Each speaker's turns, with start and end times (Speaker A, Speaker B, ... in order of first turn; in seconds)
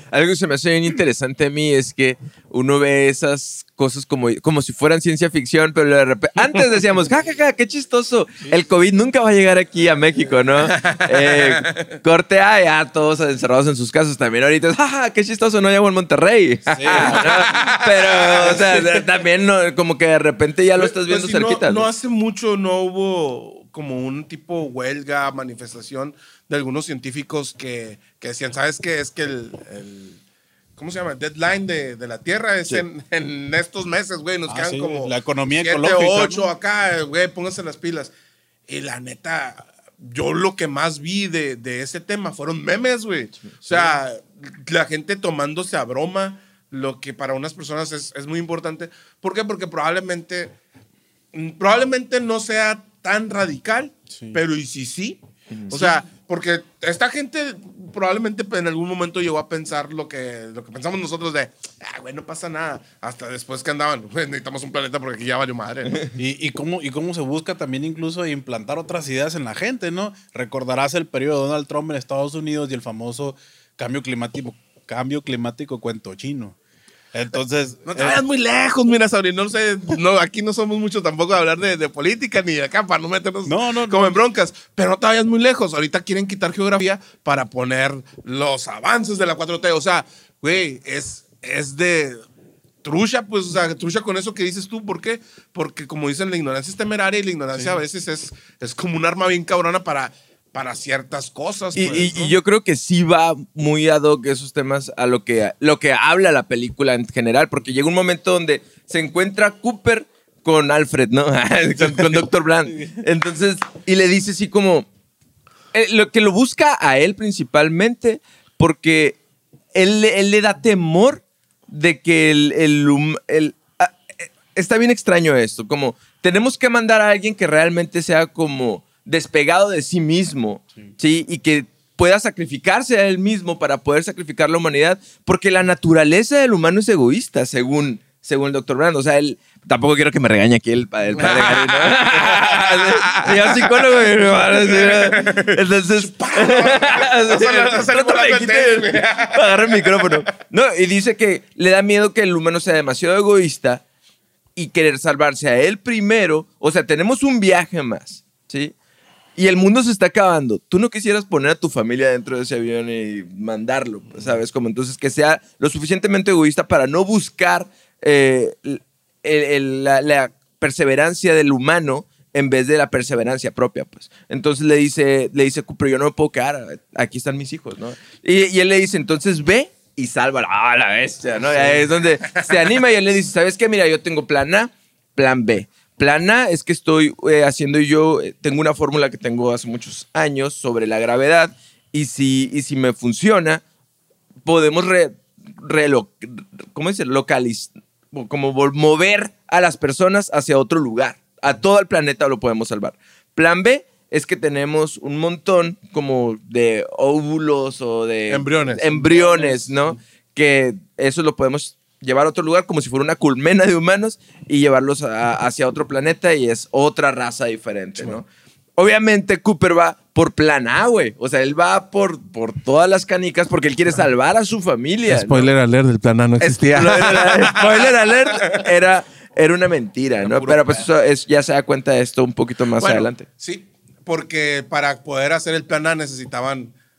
Speaker A: 0.1-21.9, 55.5-56.0, 101.7-114.9, 115.7-119.2, 119.7-153.8, 154.6-158.7, 159.3-193.6, 194.4-218.2, 218.8-225.5, 226.4-233.2
Speaker B: 10.7-11.9, 16.9-18.6, 20.8-30.2, 30.8-38.1, 38.7-50.5, 51.3-55.2, 55.7-66.1, 77.9-92.2, 92.8-102.3, 141.2-150.2, 208.3-209.5, 225.1-228.6, 230.2-230.8, 232.8-236.7
Speaker C: 16.7-17.7, 34.5-36.5, 43.6-44.0, 54.1-54.4, 66.2-76.5, 77.1-78.2, 83.5-84.2